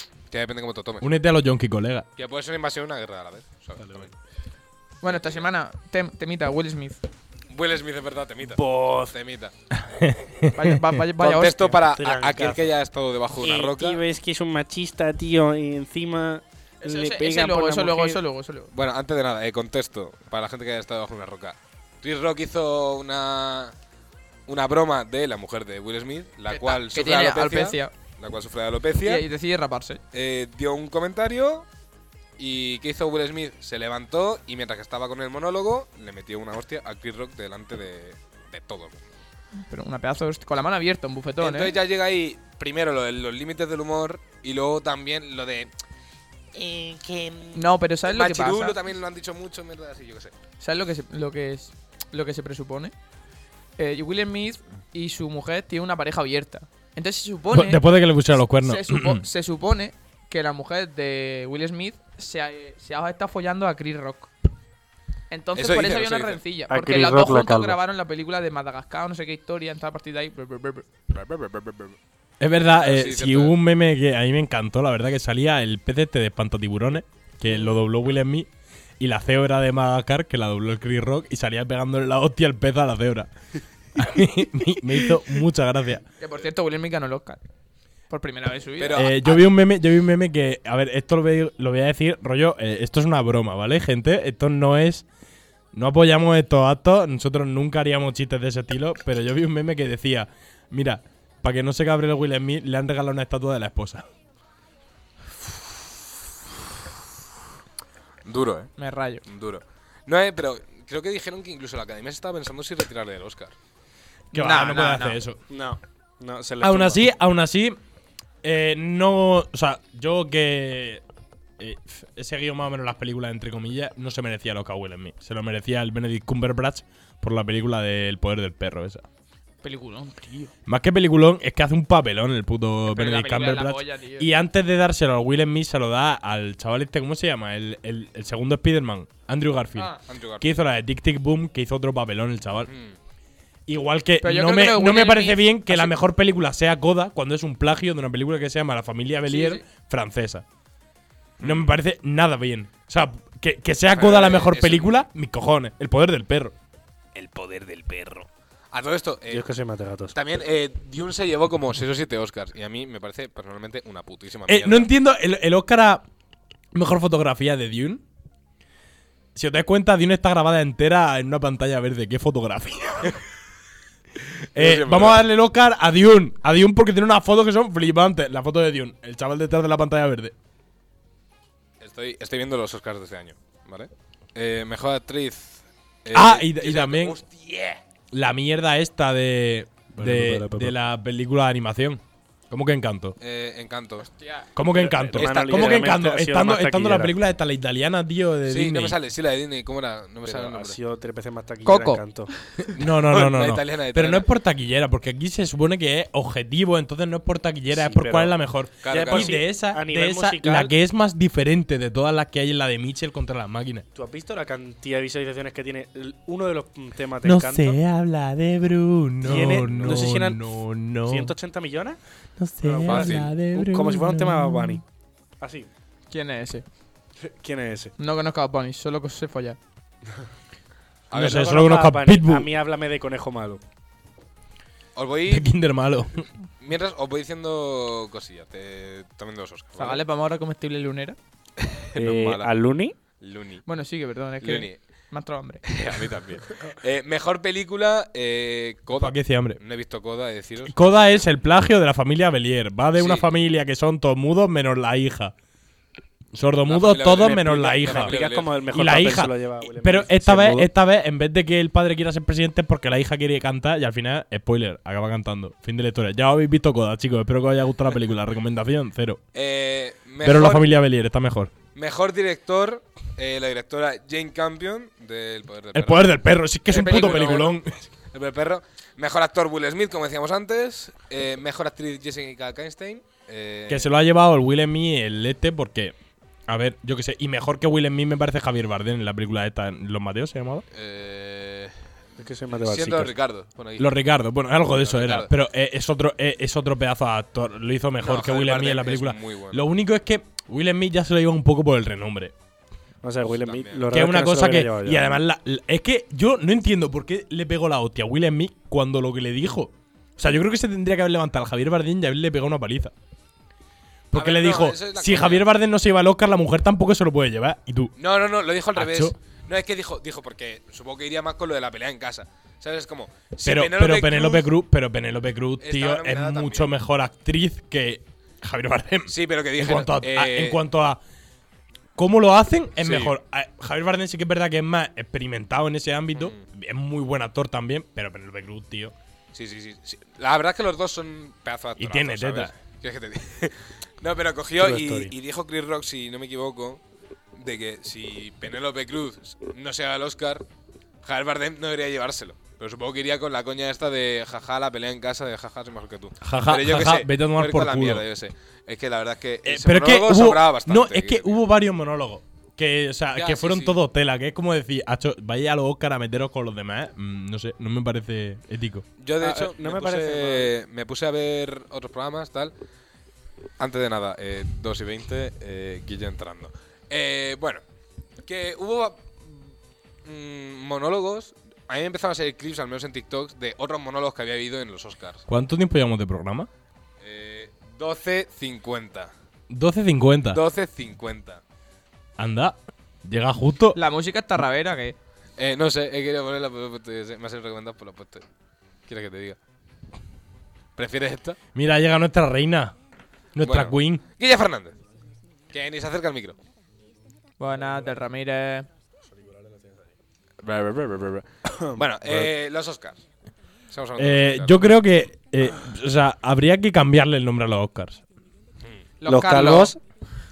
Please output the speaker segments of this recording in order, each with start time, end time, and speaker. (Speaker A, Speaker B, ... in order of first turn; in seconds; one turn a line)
Speaker A: 0.3-1.1
Speaker B: 1.0-2.1
Speaker A: 2.2-4.1
Speaker C: 3.8-4.1
Speaker D: 5.0-7.0
Speaker A: 5.0-5.5
Speaker A: 7.5-9.5
Speaker C: 8.6-9.2
Speaker B: 9.7-10.9
Speaker D: 10.6-11.7
Speaker A: 11.2-14.0
Speaker C: 11.3-12.8
Speaker C: 13.4-18.2
Speaker D: 16.8-18.7
Speaker A: 18.7-23.7
Speaker A: 24.5-29.3
Speaker D: 26.5-27.9
Speaker D: 29.0-30.0
Speaker A: 30.1-31.7
Speaker A: 32.4-39.0
Speaker D: 39.7-41.8
Speaker A: 41.4-45.7
Speaker A: 46.5-50.4
Speaker D: 47.5-48.8
Speaker D: 50.6-52.9
Speaker D: 53.8-57.8
Speaker B: 57.5-59.2
Speaker D: 58.6-64.3
Speaker D: 65.3-70.9
Speaker A: 65.5-66.4
Speaker C: 66.7-67.8
Speaker A: 71.1-72.0
Speaker B: 72.4-78.5
Speaker A: 72.7-73.6
Speaker B: 79.0-83.3
Speaker B: 84.0-86.0
Speaker D: 86.2-87.4
Speaker D: 88.1-89.1
Speaker A: 88.8-89.4
Speaker B: 89.0-95.0
Speaker B: 95.7-104.0
Speaker A: 108.2-108.7
Speaker D: 108.8-109.2
Speaker A: 109.3-113.5
Speaker D: 114.3-115.2
Speaker B: 114.3-115.4
Speaker C: 115.5-117.1
Speaker B: 116.6-117.8
Speaker B: 118.4-121.0
Speaker B: 121.6-129.1
Speaker D: 129.6-130.5
Speaker B: 130.7-142.7
Speaker D: 132.9-134.3
Speaker D: 139.8-140.0
Speaker A: 140.1-140.7
Speaker A: 142.7-143.0
Speaker B: 143.7-150.4
Speaker D: 144.2-145.9
Speaker D: 149.3-149.7
Speaker A: 151.4-151.8
Speaker B: 151.4-156.6
Speaker A: 153.9-155.1
Speaker A: 157.1-159.5
Speaker C: 159.3-160.2
Speaker A: 160.1-164.9
Speaker B: 164.5-166.0
Speaker B: 166.7-168.0
Speaker B: 169.3-173.2
Speaker B: 174.5-180.3
Speaker A: 174.6-175.3
Speaker A: 181.8-187.8
Speaker B: 186.1-187.2
Speaker B: 188.1-193.2
Speaker C: 189.9-190.7
Speaker A: 193.2-194.1
Speaker D: 194.0-194.5
Speaker B: 194.6-199.0
Speaker C: 194.7-197.2
Speaker A: 194.9-195.8
Speaker A: 198.5-200.8
Speaker C: 200.2-202.3
Speaker D: 201.7-202.0
Speaker A: 202.7-204.3
Speaker B: 202.7-213.8
Speaker C: 207.7-210.7
Speaker A: 208.8-209.4
Speaker C: 213.9-217.8
Speaker B: 217.2-221.3
Speaker C: 219.2-222.0
Speaker A: 219.6-220.1
Speaker B: 222.4-224.8
Speaker C: 222.6-224.8
Speaker A: 222.8-223.3
Speaker C: 225.4-225.7
Speaker D: 226.1-226.7
Speaker C: 227.2-227.9
Speaker D: 228.0-229.6
Speaker A: 231.1-231.5
Speaker B: 231.1-232.5
Speaker C: 231.2-233.6
Speaker A: 234.9-235.5
Speaker B: 235.3-236.3
Speaker A: 236.6-240.0
Speaker D: 239.8-241.2
Speaker A: 241.6-242.5
Speaker C: 241.9-242.9
Speaker A: 243.2-243.7
Speaker D: 243.7-245.7
Speaker A: 244.4-244.8
Speaker A: 245.7-251.3
Speaker B: 249.0-249.6
Speaker B: 250.7-255.3
Speaker A: 252.9-253.3
Speaker B: 256.3-258.2
Speaker A: 256.6-258.5
Speaker C: 257.8-260.7
Speaker B: 258.7-269.2
Speaker A: 269.3-270.7
Speaker B: 270.2-271.5
Speaker A: 271.8-276.2
Speaker B: 275.7-277.9
Speaker A: 276.7-277.5
Speaker D: 276.8-277.4
Speaker A: 278.1-283.9
Speaker B: 283.7-286.0
Speaker B: 286.5-290.6
Speaker A: 290.7-291.8
Speaker C: 292.2-293.1
Speaker A: 292.5-294.0
Speaker B: 293.8-302.3
Speaker A: 294.6-295.3
Speaker A: 298.0-299.7
Speaker C: 303.0-305.1
Speaker A: 303.3-303.9
Speaker B: 303.9-312.9
Speaker B: 314.1-317.9
Speaker A: 314.1-315.5
Speaker A: 318.0-324.5
Speaker B: 318.8-319.1
Speaker B: 323.4-331.0
Speaker A: 325.6-326.7
Speaker A: 329.1-330.6
Speaker B: 332.0-338.9
Speaker A: 332.8-333.2
Speaker A: 336.1-336.4
Speaker A: 339.3-346.8
Speaker B: 341.8-342.5
Speaker C: 344.6-345.1
Speaker A: 347.4-350.4
Speaker A: 351.0-361.4
Speaker B: 356.2-358.0
Speaker B: 359.4-368.9
Speaker A: 363.1-363.8
Speaker A: 369.0-372.5
Speaker C: 369.2-370.5
Speaker A: 373.6-377.6
Speaker A: 378.2-379.5
Speaker A: 380.0-385.3
Speaker B: 385.3-386.5
Speaker A: 387.0-389.1
Speaker B: 389.5-390.4
Speaker A: 390.3-391.4
Speaker B: 392.2-393.8
Speaker D: 393.7-395.0
Speaker A: 395.4-398.2
Speaker A: 398.9-399.4
Speaker A: 400.8-401.4
Speaker B: 401.5-402.8
Speaker B: 403.4-404.0
Speaker A: 403.4-404.8
Speaker A: 405.5-406.4
Speaker D: 407.4-408.7
Speaker C: 409.2-409.7
Speaker A: 410.4-413.0
Speaker C: 411.4-412.3
Speaker A: 413.7-414.8
Speaker B: 414.0-418.0
Speaker D: 419.0-419.8
Speaker C: 419.1-419.8